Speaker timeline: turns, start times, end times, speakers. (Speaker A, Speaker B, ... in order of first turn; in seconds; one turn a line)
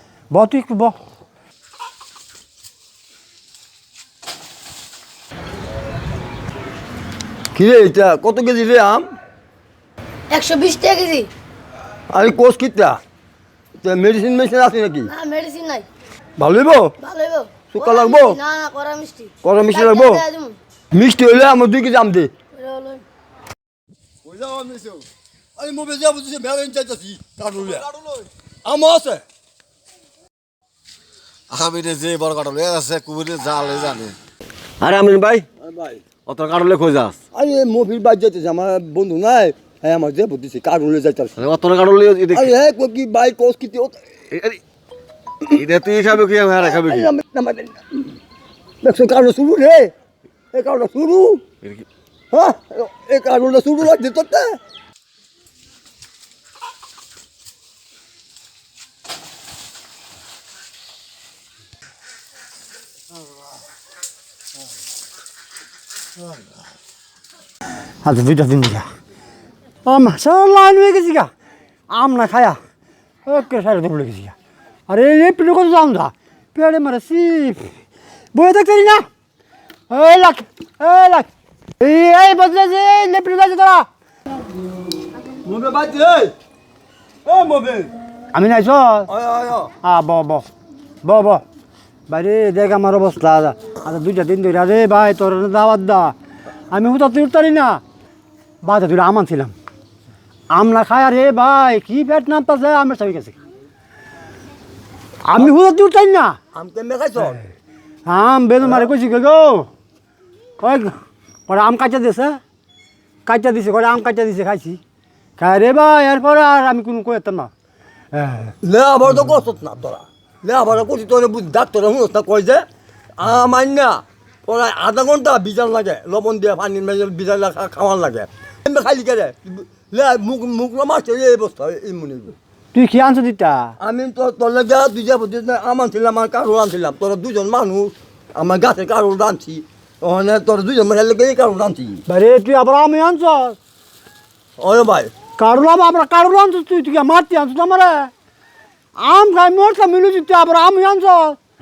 Speaker A: 0.3-0.9
Speaker B: 7.5-9.1
Speaker C: 10.3-11.3
Speaker B: 12.1-13.0
Speaker B: 13.8-15.1
Speaker C: 15.1-15.9
Speaker B: 16.4-16.9
Speaker C: 17.0-20.6
Speaker B: 17.7-18.4
Speaker B: 19.4-20.2
Speaker B: 20.9-22.3
Speaker C: 22.5-23.0
Speaker B: 24.2-25.0
Speaker B: 25.6-27.9
Speaker B: 28.6-29.2
Speaker D: 31.5-34.2
Speaker D: 34.8-35.5
Speaker D: 36.2-37.2
Speaker B: 37.3-41.4
Speaker D: 41.4-42.5
Speaker B: 42.3-44.0
Speaker D: 44.3-44.6
Speaker D: 45.4-47.1
Speaker B: 46.9-47.9
Speaker B: 48.8-49.9
Speaker B: 50.5-51.4
Speaker B: 52.3-54.6
Speaker A: 68.0-68.9
Speaker A: 69.8-71.3
Speaker A: 71.9-72.6
Speaker A: 73.2-74.3
Speaker A: 74.9-77.7
Speaker A: 78.3-79.0
Speaker A: 79.9-81.3
Speaker A: 81.8-83.9
Speaker B: 85.4-86.3
Speaker B: 87.2-87.9
Speaker A: 88.3-89.1
Speaker B: 89.1-89.7
Speaker A: 89.8-90.5
Speaker A: 91.0-91.4
Speaker A: 92.1-96.1
Speaker A: 96.7-97.8
Speaker A: 98.6-99.5
Speaker A: 100.5-103.4
Speaker A: 105.2-106.4
Speaker B: 106.5-107.4
Speaker A: 108.1-109.7
Speaker B: 108.6-108.9
Speaker A: 110.6-110.9
Speaker A: 111.5-112.4
Speaker A: 113.2-114.8
Speaker A: 115.4-117.5
Speaker A: 118.1-118.5
Speaker B: 118.6-122.7
Speaker B: 123.2-132.3
Speaker A: 132.7-133.7
Speaker B: 133.8-142.0
Speaker A: 142.1-143.6
Speaker B: 144.6-145.1
Speaker A: 145.4-148.1
Speaker A: 148.9-151.4